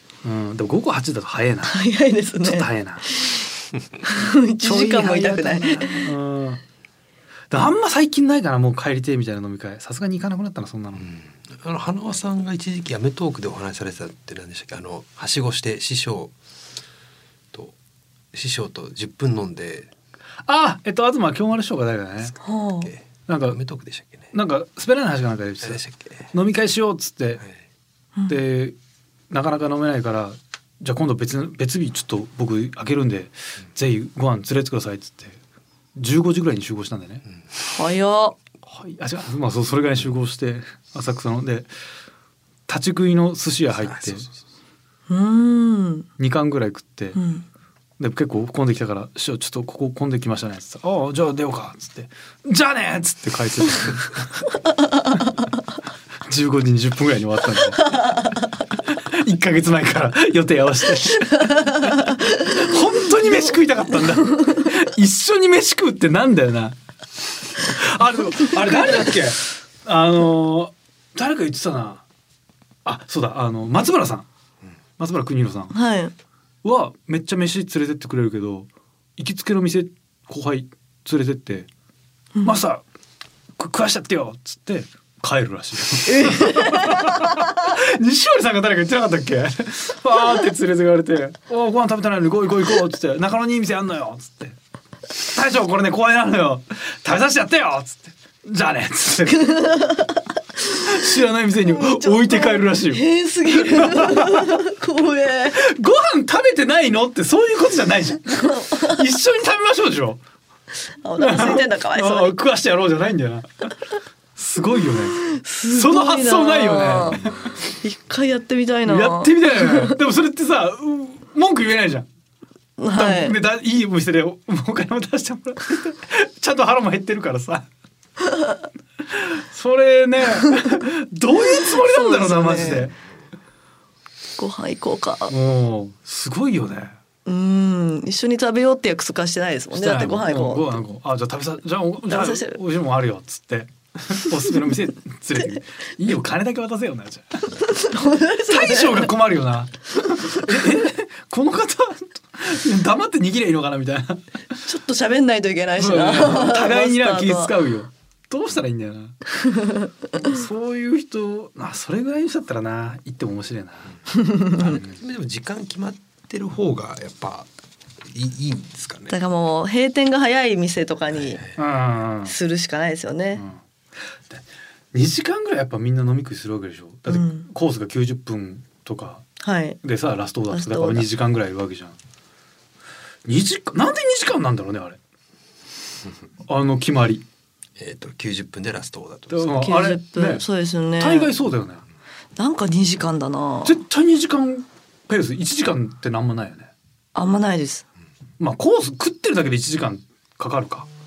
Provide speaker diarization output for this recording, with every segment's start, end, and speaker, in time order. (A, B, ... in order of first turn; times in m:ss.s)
0:00.2-0:01.8 A
0:01.6-0:03.4 B
0:02.4-0:03.0 A
0:04.0-0:06.1 B
0:04.6-0:06.6 A
0:07.5-0:11.1 A
0:11.0-0:16.3 C
0:18.3-0:19.9 C
0:20.4-0:22.3 A
0:22.4-0:22.9 B
0:22.8-0:24.3 C
0:23.3-0:23.6 A
0:24.3-0:25.8 A
0:25.6-0:26.3 C
0:26.3-0:27.4 A
0:28.3-0:28.8 A
0:29.3-0:35.4 A
0:36.0-0:37.2 A
0:37.7-0:38.4 B
0:38.6-0:41.7 A
0:42.7-0:44.3 A
0:43.8-0:44.3 C
0:45.1-0:46.1 B
0:46.2-0:47.2 A
0:47.2-0:47.4 B
0:48.0-0:54.5 A
0:56.2-0:58.2 A
0:58.0-0:58.2 B
0:58.8-1:06.8 A
1:01.5-1:02.5 B
1:07.6-1:12.0 A
1:12.8-1:14.2 A
1:15.0-1:15.7 A
1:15.7-1:16.1 B
1:16.6-1:21.7 A
1:22.4-1:22.8 A
1:23.6-1:34.6 A
1:26.0-1:27.6 B
1:35.1-1:39.7 A
1:39.3-1:40.8 B
1:40.6-1:44.6 A
1:41.7-1:45.6 B
1:45.5-1:50.2 A
1:48.4-1:49.0 B
1:51.0-1:52.4 B
1:51.2-1:53.7 A
1:54.4-1:57.4 A
1:55.2-1:57.3 B
1:57.8-2:00.0 B
1:58.8-2:02.1 A
2:02.8-2:03.4 B
2:02.9-2:07.7 A
2:09.0-2:12.9 A
2:11.4-2:12.9 B
2:14.4-2:15.3 B
2:15.3-2:17.0 A
2:17.2-2:20.7 B
2:19.7-2:27.6 A
2:22.1-2:22.6 B
2:27.6-2:29.1 B
2:28.5-2:34.2 A
2:34.6-2:37.5 B
2:35.8-2:39.2 A
2:39.4-2:39.9 B
2:40.2-2:43.9 A
2:44.1-2:44.8 B
2:44.6-2:47.5 C
2:48.1-2:49.2 C
2:49.1-2:51.4 B
2:51.1-2:51.6 C
2:51.6-2:52.3 A
2:52.2-2:53.4 B
2:54.3-2:59.2 A
2:57.1-2:57.5 B
2:59.4-2:59.8 B
2:59.8-3:02.0 A
3:00.5-3:01.1 B
3:03.2-3:05.0 A
3:06.4-3:07.2 A
3:07.8-3:09.5 C
3:09.3-3:10.4 A
3:09.5-3:11.3 B
3:11.0-3:11.8 A
3:12.4-3:13.8 B
3:13.6-3:16.7 A
3:17.1-3:17.8 B
3:18.4-3:20.9 A